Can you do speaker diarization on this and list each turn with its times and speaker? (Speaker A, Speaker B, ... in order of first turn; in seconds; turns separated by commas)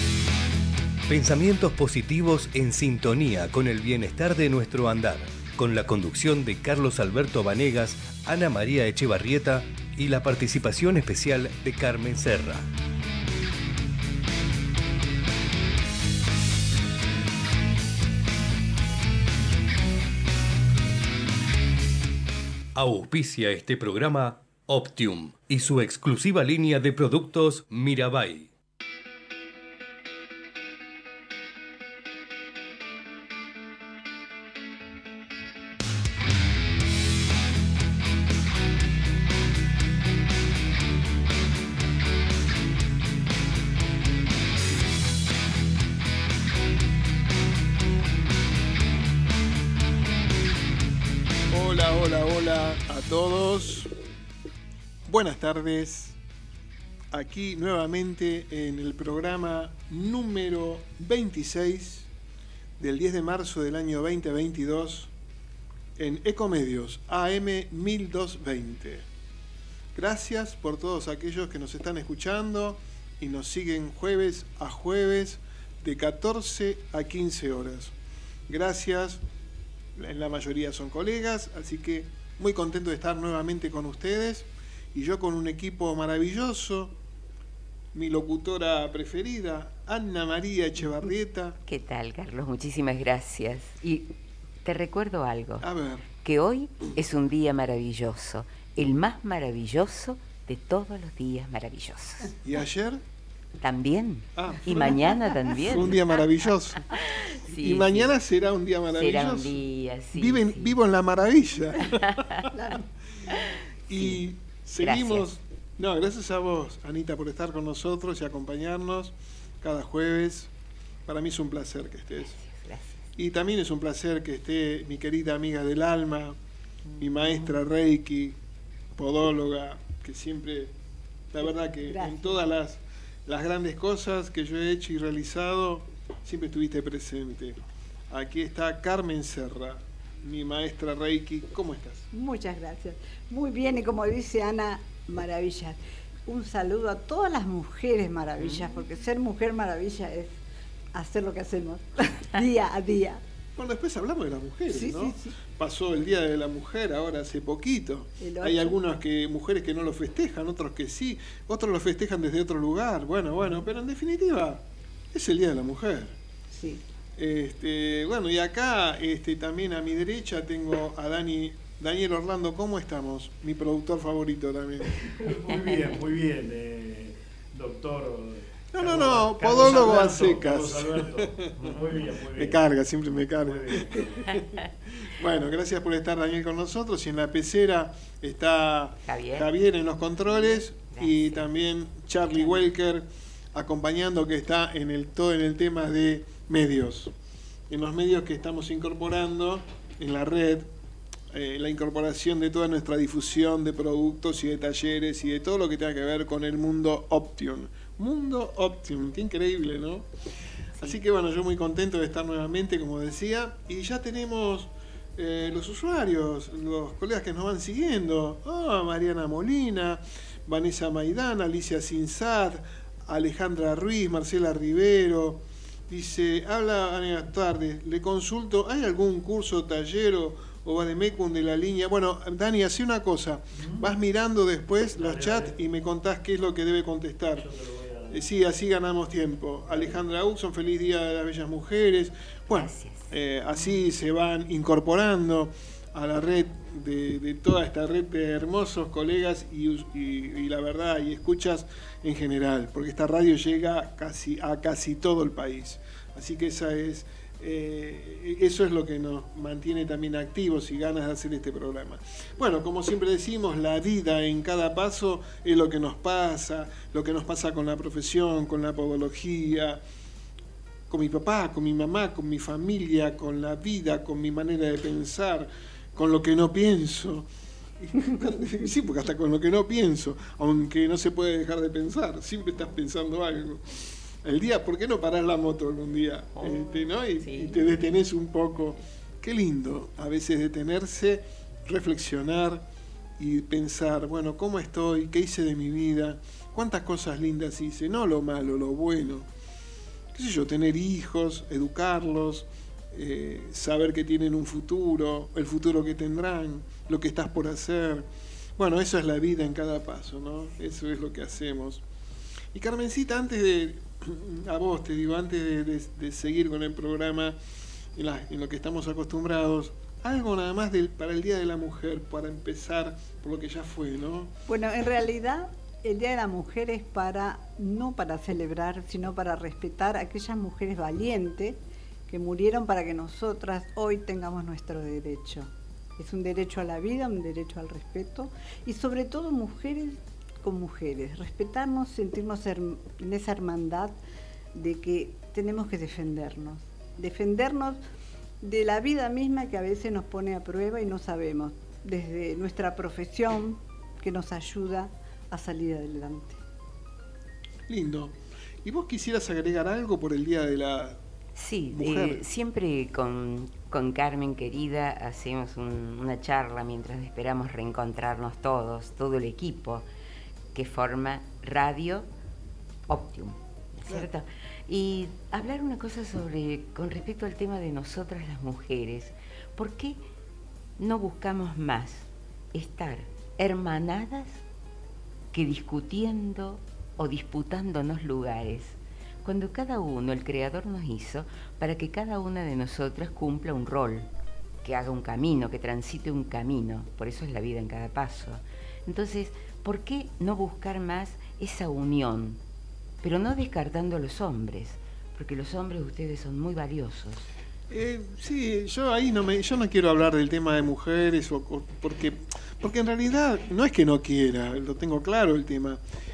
Speaker A: 1.1-12.7, Speaker A: 22.7-28.5, Speaker B: 51.5-53.9, Speaker B: 55.1-56.2, Speaker B: 57.1-62.1, Speaker B: 62.8-65.1, Speaker B: 66.0-69.0, Speaker B: 69.9-77.9, Speaker B: 78.5-79.2, Speaker B: 80.0-86.9, Speaker B: 87.9-91.6, Speaker C: 91.7-94.1, Speaker C: 94.6-95.7, Speaker B: 95.6-96.1, Speaker C: 96.2-102.4, Speaker B: 102.4-103.0, Speaker C: 103.6-106.2, Speaker B: 104.3-106.8, Speaker C: 106.9-108.1, Speaker B: 107.5-109.5, Speaker C: 108.9-110.7, Speaker B: 110.1-112.5, Speaker C: 111.9-112.5, Speaker C: 113.3-114.2, Speaker B: 113.9-120.5, Speaker C: 114.8-115.2, Speaker B: 121.0-122.4, Speaker C: 122.3-123.0, Speaker B: 123.2-126.4, Speaker B: 127.0-128.4, Speaker B: 128.9-130.7, Speaker B: 131.3-137.6, Speaker D: 131.9-132.4, Speaker B: 138.1-142.1, Speaker D: 142.1-150.4, Speaker D: 150.9-153.2, Speaker B: 153.6-164.6, Speaker D: 154.7-155.3, Speaker D: 158.2-158.8, Speaker B: 165.1-166.1, Speaker D: 166.5-166.8, Speaker B: 167.2-175.0, Speaker E: 175.0-182.6, Speaker B: 178.7-181.8, Speaker B: 182.3-184.4, Speaker E: 183.4-184.4, Speaker B: 185.0-197.1, Speaker C: 189.1-189.5, Speaker C: 190.3-191.5, Speaker B: 197.7-200.7, Speaker B: 201.3-210.1, Speaker B: 210.8-237.5, Speaker E: 233.6-233.9, Speaker E: 235.0-235.5, Speaker E: 237.4-238.2, Speaker B: 238.1-269.8, Speaker C: 242.5-243.0, Speaker B: 270.9-277.3, Speaker B: 277.8-292.6, Speaker C: 286.4-287.5, Speaker B: 293.2-299.3, Speaker B: 300.1-311.8, Speaker B: 312.5-317.4, Speaker B: 317.9-324.3, Speaker D: 324.5-344.0, Speaker D: 344.5-347.8, Speaker D: 348.4-356.4, Speaker B: 357.7-361.0, Speaker C: 361.4-369.9, Speaker B: 361.7-362.2, Speaker C: 370.5-372.1, Speaker C: 372.9-380.0, Speaker C: 380.8-384.4, Speaker C: 385.3-394.1, Speaker C: 394.6-402.4, Speaker C: 403.0-407.3, Speaker B: 407.7-415.8